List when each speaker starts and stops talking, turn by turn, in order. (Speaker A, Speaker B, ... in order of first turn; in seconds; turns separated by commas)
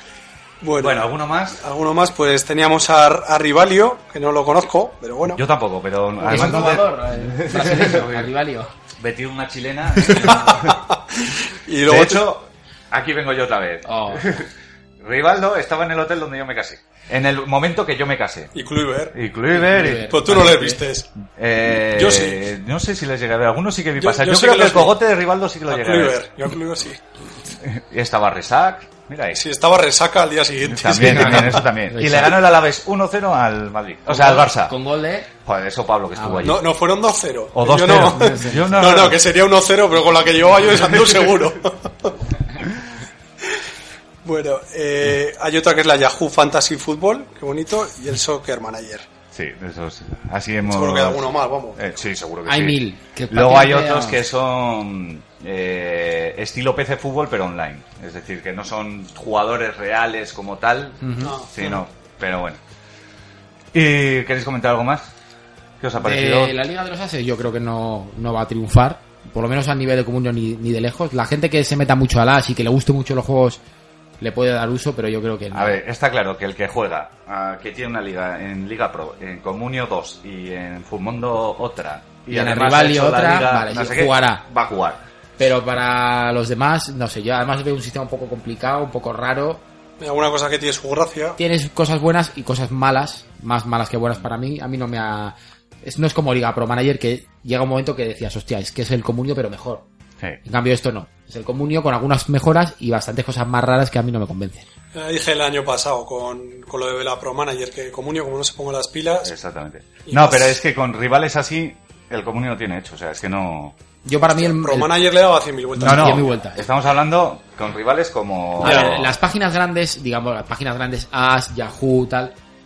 Speaker A: 0.6-5.4, Speaker B: 0.8-1.6, Speaker B: 5.3-8.3, Speaker C: 6.2-8.7, Speaker B: 9.0-10.7, Speaker A: 10.1-12.2, Speaker B: 11.9-14.5, Speaker C: 13.8-14.3, Speaker B: 15.0-18.5, Speaker A: 18.5-19.2, Speaker B: 19.1-20.1, Speaker C: 19.5-20.8, Speaker A: 19.9-21.1, Speaker B: 21.3-26.2, Speaker A: 21.9-22.4, Speaker A: 24.0-24.9, Speaker A: 25.7-27.0, Speaker B: 27.6-29.4, Speaker A: 29.3-31.6, Speaker B: 30.6-34.7, Speaker C: 31.0-32.4, Speaker C: 34.1-35.3, Speaker B: 35.4-36.7, Speaker C: 36.1-36.5, Speaker A: 36.4-42.1, Speaker B: 37.5-39.2, Speaker C: 37.9-38.8, Speaker A: 44.2-49.0, Speaker B: 49.3-62.6, Speaker A: 50.6-52.0, Speaker C: 52.5-54.2, Speaker C: 61.0-61.3, Speaker A: 61.2-61.8, Speaker B: 63.7-65.1, Speaker B: 65.8-66.5, Speaker C: 66.0-73.6, Speaker C: 74.2-75.8, Speaker B: 75.5-85.0, Speaker C: 82.3-84.4, Speaker C: 85.4-89.6, Speaker A: 90.0-91.4, Speaker C: 91.4-99.8, Speaker C: 100.4-104.6, Speaker A: 104.9-109.3, Speaker B: 109.2-113.8, Speaker A: 110.0-110.6, Speaker C: 114.0-115.0, Speaker A: 114.2-116.3, Speaker C: 115.8-116.6, Speaker B: 115.8-119.1, Speaker C: 118.6-122.3, Speaker A: 118.6-118.9